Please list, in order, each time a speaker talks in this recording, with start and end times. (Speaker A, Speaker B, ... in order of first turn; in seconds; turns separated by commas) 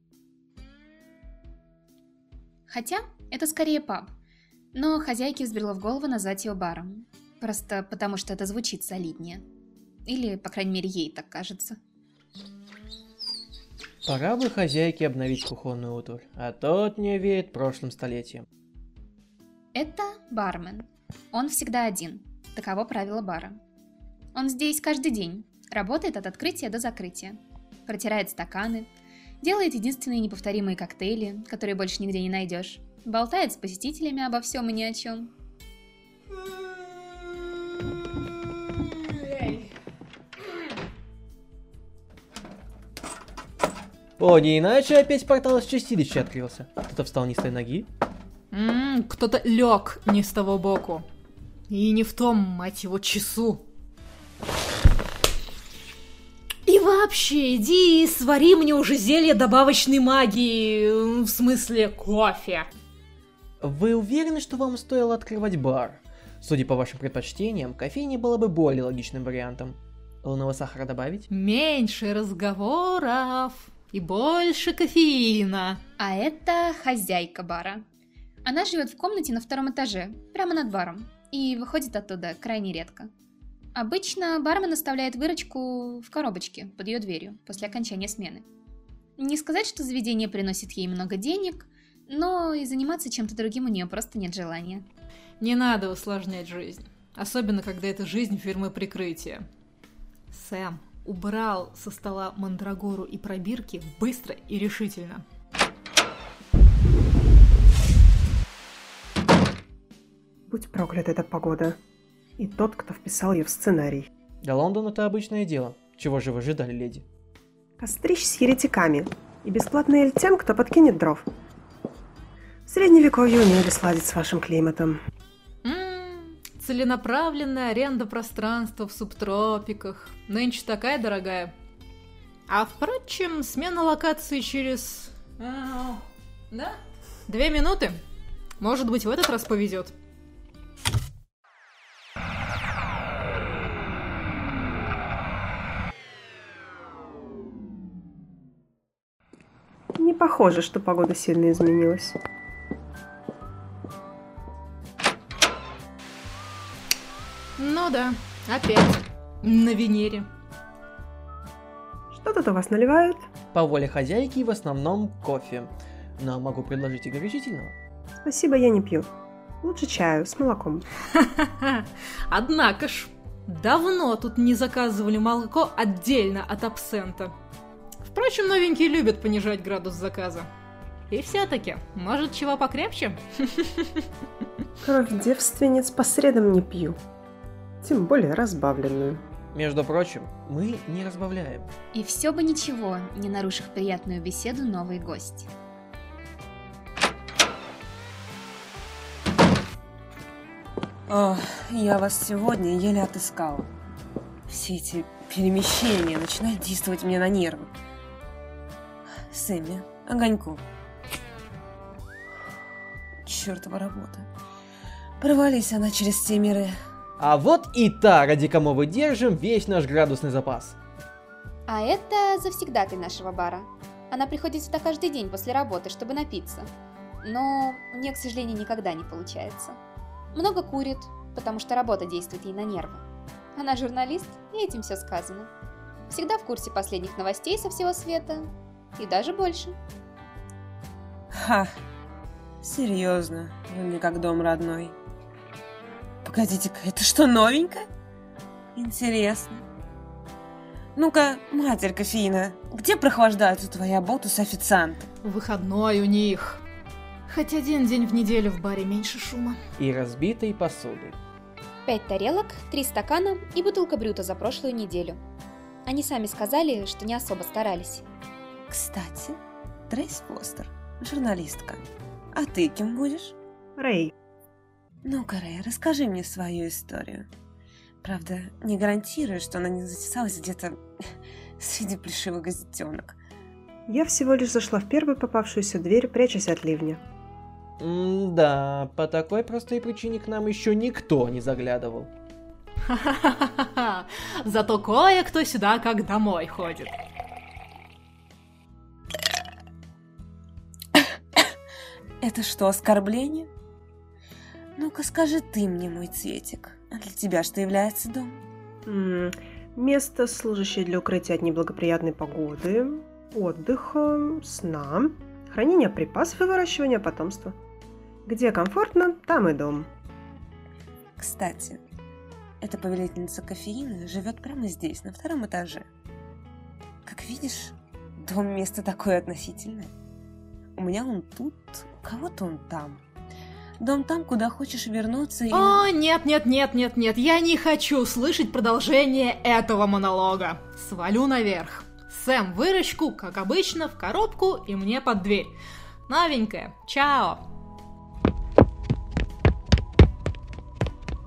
Speaker A: 2.7-4.1, Speaker A: 4.7-9.4, Speaker A: 10.1-11.8, Speaker B: 14.1-18.4, Speaker A: 19.8-23.6, Speaker A: 24.4-28.9, Speaker A: 29.4-35.3, Speaker C: 39.0-39.7, Speaker B: 44.2-47.9, Speaker C: 48.5-51.1, Speaker C: 51.7-53.6, Speaker C: 56.7-62.7, Speaker B: 63.6-71.3, Speaker C: 71.3-75.8, Speaker A: 76.0-77.8, Speaker A: 78.5-83.1, Speaker A: 83.8-88.5, Speaker A: 89.2-94.8, Speaker C: 95.4-99.5, Speaker C: 100.3-105.2, Speaker D: 110.5-111.8, Speaker D: 112.4-114.1, Speaker B: 114.4-117.1, Speaker D: 117.8-121.3, Speaker D: 122.7-125.0, Speaker C: 125.6-131.5, Speaker C: 132.5-138.0, Speaker C: 138.6-139.9, Speaker D: 150.0-152.2, Speaker C: 157.6-160.3, Speaker D: 162.1-163.3, Speaker B: 163.5-167.8, Speaker D: 168.2-169.1, Speaker D: 169.6-170.9, Speaker C: 171.1-177.3, Speaker C: 178.0-180.5, Speaker C: 181.1-184.1, Speaker D: 184.8-187.0, Speaker D: 187.8-189.2, Speaker B: 189.5-191.7, Speaker A: 191.9-195.5, Speaker E: 201.1-203.7, Speaker E: 204.5-207.7, Speaker E: 209.3-210.6, Speaker E: 213.2-214.3, Speaker E: 215.2-216.8, Speaker B: 217.2-220.8, Speaker A: 221.7-226.7, Speaker A: 227.2-229.8, Speaker A: 230.3-233.0, Speaker A: 233.6-235.5, Speaker A: 236.1-239.8, Speaker E: 241.3-241.7, Speaker E: 242.6-245.0, Speaker E: 246.2-247.8, Speaker E: 248.8-249.6, Speaker E: 250.9-255.1, Speaker C: 255.2-256.6, Speaker C: 257.3-259.6, Speaker B: 259.8-261.2, Speaker A: 261.9-265.2, Speaker A: 265.9-268.1, Speaker E: 268.7-273.4, Speaker D: 273.8-274.1, Speaker E: 275.1-277.3, Speaker E: 278.0-280.8, Speaker E: 281.6-283.2, Speaker D: 283.9-287.0, Speaker B: 287.8-292.1, Speaker C: 292.9-297.0, Speaker E: 302.2-303.5, Speaker E: 304.8-308.4, Speaker D: 308.9-317.6, Speaker D: 318.3-319.9, Speaker E: 321.2-321.8, Speaker E: 322.6-325.9, Speaker E: 327.1-329.9, Speaker E: 330.8-333.0, Speaker E: 333.8-335.8, Speaker C: 335.5-345.6, Speaker C: 346.1-347.4